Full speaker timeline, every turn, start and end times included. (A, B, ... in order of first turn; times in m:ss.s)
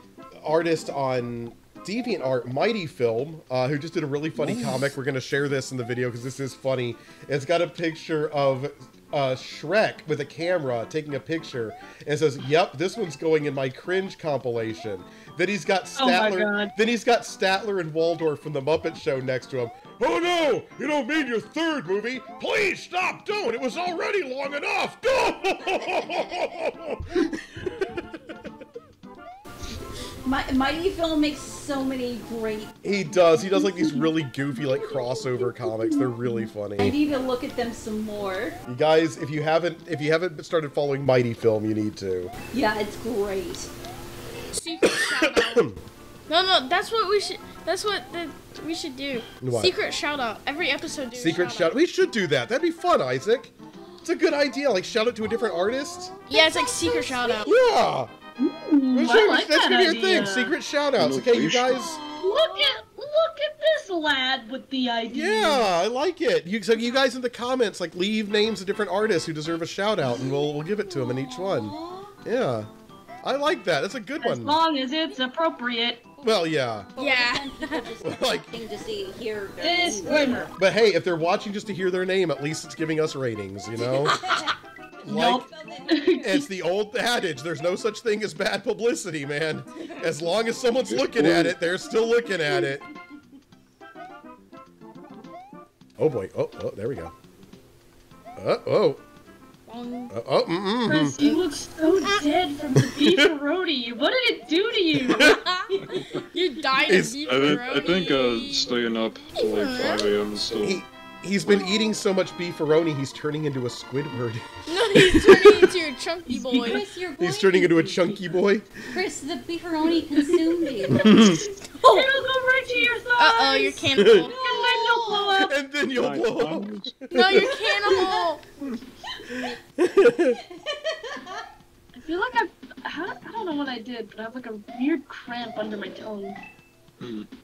0:00.4-0:28.3 A
0:16.0-0:16.7 B
0:26.0-0:26.3 C
0:30.2-0:32.7 C
0:32.8-0:37.0 A
0:34.6-0:35.1 C
0:36.8-0:38.6 C
0:38.7-0:42.3 A
0:42.5-0:43.7 C
0:44.5-0:45.7 D
0:44.9-0:45.8 A
0:46.3-0:51.8 D
0:49.4-0:49.7 A
0:51.2-0:53.5 A
0:53.9-0:54.1 C
0:54.0-0:56.1 A
0:55.4-0:57.6 C
0:56.3-0:57.5 D
0:57.4-0:58.1 A
0:58.4-1:00.6 B
0:58.9-1:02.0 A
1:01.0-1:01.9 E
1:01.7-1:02.8 C
1:02.2-1:05.6 B
1:05.1-1:12.7 A
1:10.0-1:12.1 C
1:13.2-1:14.6 A
1:14.2-1:16.1 B
1:16.2-1:20.6 C
1:16.2-1:16.9 A
1:17.0-1:17.9 D
1:18.0-1:18.5 A
1:19.6-1:20.5 B
1:20.5-1:24.3 A
1:23.8-1:26.5 C
1:25.0-1:25.4 A
1:25.1-1:26.4 B
1:26.2-1:32.9 A
1:29.8-1:30.2 C
1:30.8-1:31.6 E
1:32.5-1:32.7 C
1:36.0-1:37.1 A
1:38.4-1:39.0 A
1:39.7-1:40.1 D
1:40.1-1:41.2 A
1:40.9-1:45.3 B
1:41.2-1:41.5 D
1:42.9-1:43.3 A
1:45.1-1:48.8 D
1:45.8-1:46.2 E
1:46.9-1:47.7 A
1:47.2-1:50.8 E
1:49.3-1:50.2 D
1:50.6-1:55.7 A
1:54.7-1:56.8 D
1:56.3-1:58.3 C
1:57.2-1:58.9 A
1:58.9-2:01.3 C
2:00.9-2:01.4 A
2:01.8-2:02.1 D
2:01.9-2:05.5 B
2:02.7-2:04.4 D
2:04.0-2:04.3 A
2:04.2-2:05.4 C
2:05.4-2:07.5 A
2:05.9-2:07.0 E
2:07.1-2:08.1 C
2:07.1-2:08.4 D
2:09.8-2:10.4 A
2:10.7-2:11.4 C
2:11.9-2:16.4 B
2:17.0-2:17.3 E